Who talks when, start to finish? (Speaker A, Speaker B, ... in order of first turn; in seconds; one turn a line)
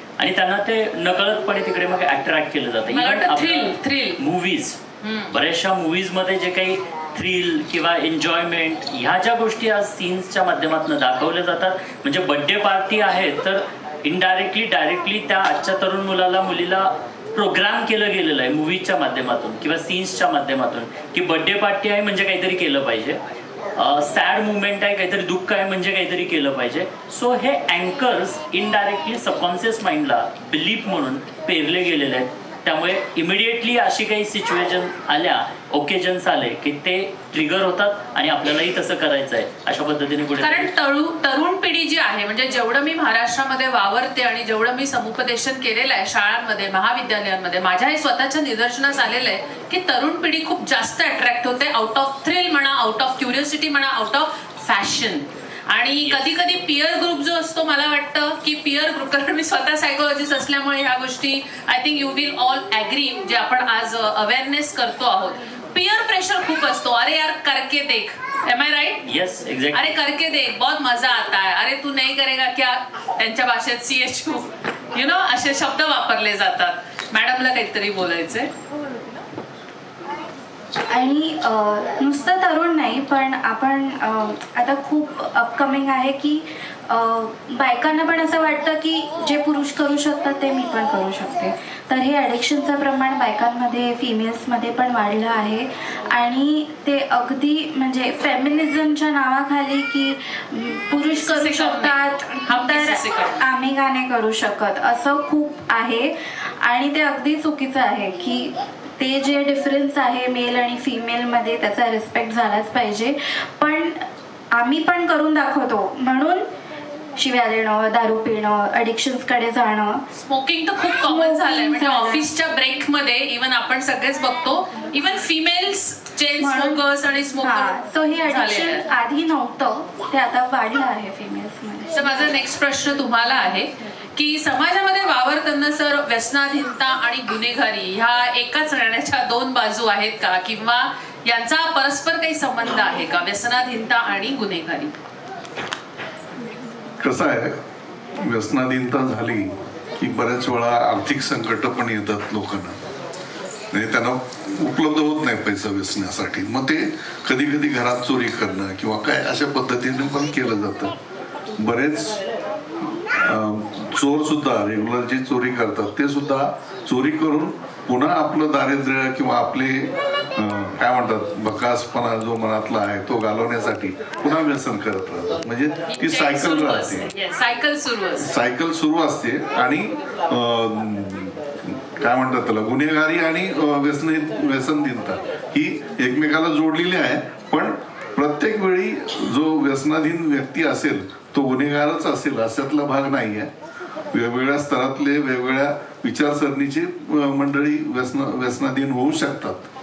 Speaker A: 0.2-3.7
Speaker B: 2.9-4.2
Speaker A: 4.2-4.8
Speaker B: 5.0-5.3
Speaker A: 5.3-23.2
Speaker A: 23.8-40.5
Speaker B: 40.4-69.1
Speaker A: 69.1-69.8
Speaker B: 69.7-78.5
Speaker C: 80.9-114.0
Speaker B: 101.1-103.4
Speaker C: 114.5-116.4
Speaker C: 117.2-120.0
Speaker B: 120.1-128.8
Speaker C: 121.0-122.2
Speaker C: 126.4-126.8
Speaker C: 127.4-132.3
Speaker B: 131.9-144.9
Speaker D: 147.0-147.6
Speaker D: 148.2-152.8
Speaker D: 153.7-160.9
Speaker D: 161.6-162.2
Speaker D: 162.8-177.1
Speaker B: 175.9-178.3
Speaker D: 178.2-193.5
Speaker D: 194.1-199.7